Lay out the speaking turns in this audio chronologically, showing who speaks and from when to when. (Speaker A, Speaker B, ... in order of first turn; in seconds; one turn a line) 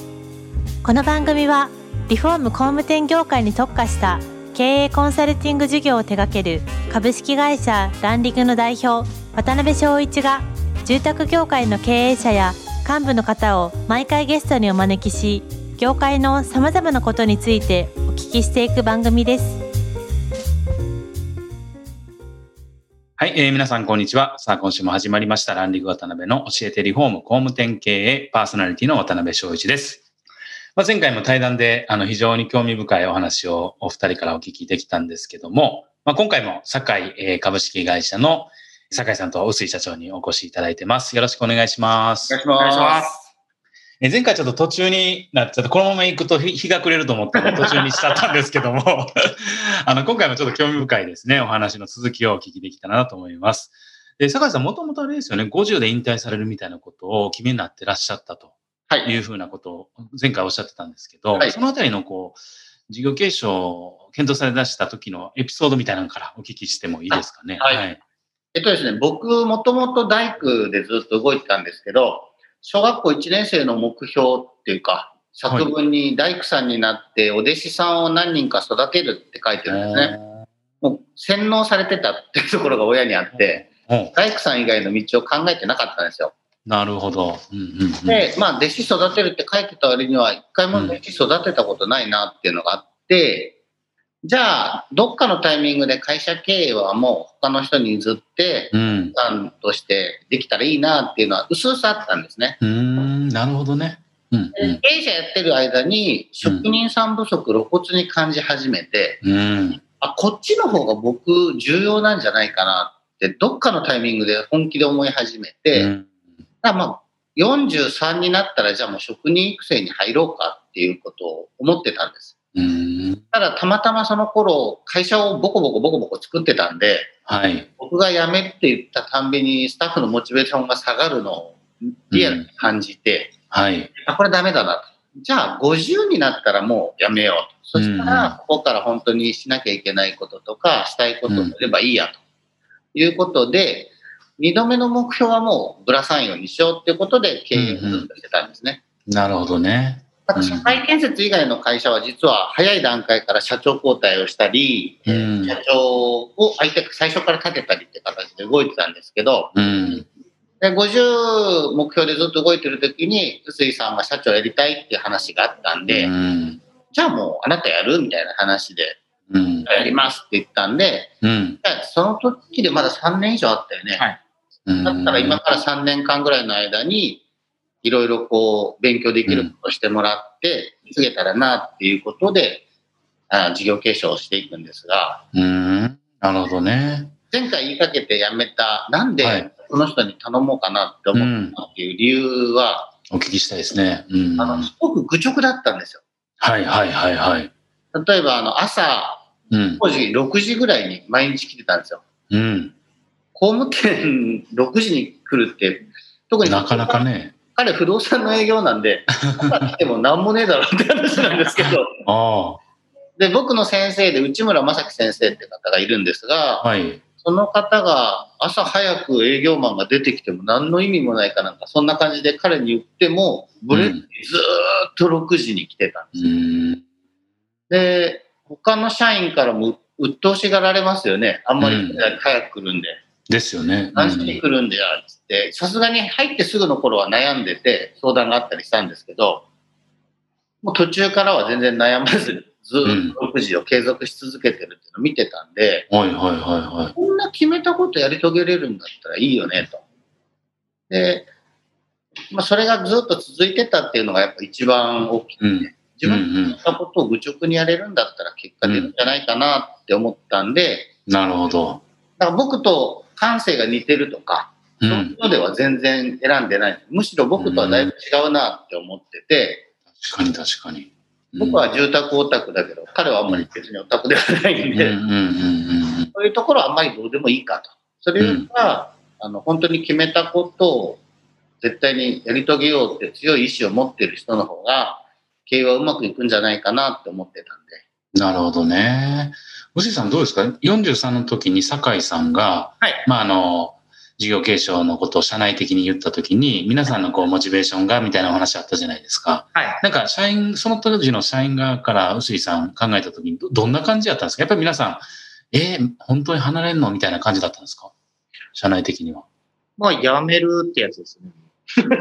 Speaker A: 0.8-19.6
Speaker B: 23.2-30.0
Speaker B: 30.8-42.3
Speaker C: 42.3-43.1
Speaker D: 42.6-43.3
Speaker B: 44.0-68.0
Speaker C: 67.1-67.8
Speaker C: 68.5-80.1
Speaker B: 79.7-80.4
Speaker C: 80.8-86.3
Speaker B: 83.4-84.1
Speaker B: 86.7-88.3
Speaker C: 88.1-93.5
Speaker B: 90.7-91.0
Speaker C: 94.2-102.6
Speaker B: 98.7-99.1
Speaker B: 102.6-104.8
Speaker C: 104.5-109.2
Speaker B: 109.2-109.8
Speaker C: 109.9-115.9
Speaker B: 115.7-116.1
Speaker C: 116.6-122.3
Speaker B: 122.5-123.2
Speaker C: 123.3-127.1
Speaker B: 127.2-127.7
Speaker C: 127.8-133.4
Speaker B: 132.1-132.4
Speaker B: 133.5-133.9
Speaker C: 134.0-142.2
Speaker B: 137.8-138.3
Speaker B: 141.3-141.6
Speaker C: 142.9-148.8
Speaker B: 147.5-148.1
Speaker B: 149.1-150.8
Speaker C: 150.2-159.5
Speaker B: 155.1-155.6
Speaker B: 159.5-160.1
Speaker C: 160.6-166.1
Speaker B: 165.9-166.6
Speaker C: 166.9-169.0
Speaker B: 169.3-169.7
Speaker C: 169.7-174.0
Speaker B: 171.2-171.6
Speaker D: 173.9-174.2
Speaker B: 174.7-175.4
Speaker C: 174.8-177.2
Speaker C: 177.8-182.6
Speaker B: 179.3-179.5
Speaker C: 183.3-185.2
Speaker B: 185.3-187.1
Speaker C: 187.3-192.9
Speaker B: 189.2-189.5
Speaker B: 191.1-191.6
Speaker B: 193.1-194.7
Speaker C: 194.4-196.0
Speaker B: 196.4-197.5
Speaker C: 197.9-202.0
Speaker B: 199.5-199.8
Speaker B: 202.3-202.7
Speaker C: 203.3-211.9
Speaker B: 206.4-207.3
Speaker B: 212.0-212.6
Speaker C: 213.2-216.7
Speaker B: 216.6-217.0
Speaker C: 217.2-226.3
Speaker B: 223.7-224.0
Speaker B: 226.1-226.8
Speaker C: 227.7-233.0
Speaker B: 231.6-232.1
Speaker B: 233.3-234.4
Speaker C: 233.9-239.4
Speaker C: 240.6-245.9
Speaker B: 242.8-243.2
Speaker B: 245.9-246.9
Speaker C: 246.9-249.8
Speaker C: 250.9-251.3
Speaker C: 252.3-260.9
Speaker B: 255.4-256.6
Speaker B: 258.6-258.9
Speaker B: 261.1-261.8
Speaker C: 262.2-269.7
Speaker B: 264.8-265.1
Speaker B: 267.4-267.9
Speaker B: 269.9-271.6
Speaker C: 271.4-274.9
Speaker B: 274.7-276.1
Speaker C: 276.1-281.0
Speaker B: 278.2-278.5
Speaker C: 281.6-287.8
Speaker B: 288.1-307.9
Speaker D: 299.5-299.8
Speaker B: 308.5-309.2
Speaker D: 309.8-311.5